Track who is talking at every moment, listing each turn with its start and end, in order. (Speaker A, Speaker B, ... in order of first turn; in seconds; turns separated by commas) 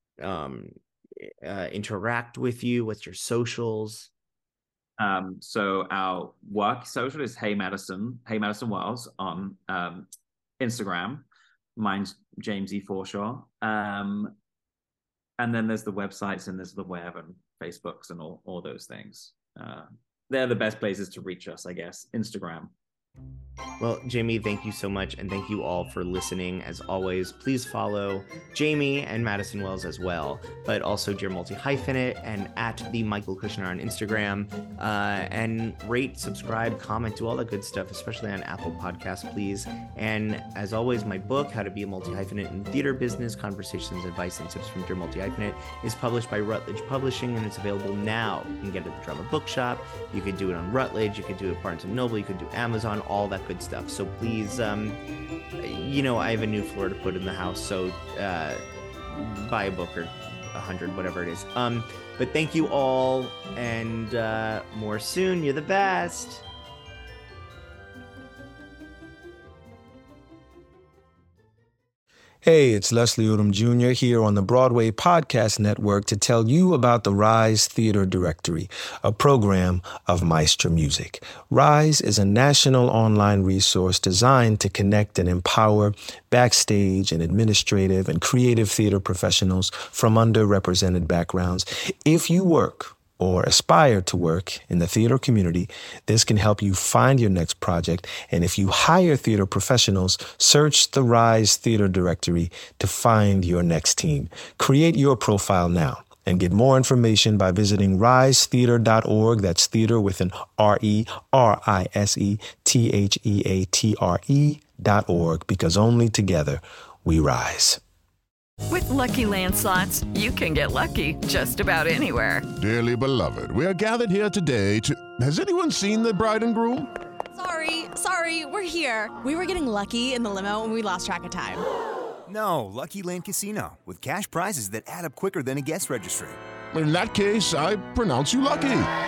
Speaker A: 0.2-4.1, Speaker B: 5.0-10.1, Speaker B: 10.6-14.3, Speaker B: 15.4-22.7, Speaker A: 23.8-55.0, Speaker A: 55.6-66.4, Speaker C: 72.4-117.8, Speaker D: 118.7-122.5, Speaker E: 122.6-126.9, Speaker F: 127.3-131.6, Speaker G: 132.3-136.4, Speaker E: 136.7-138.9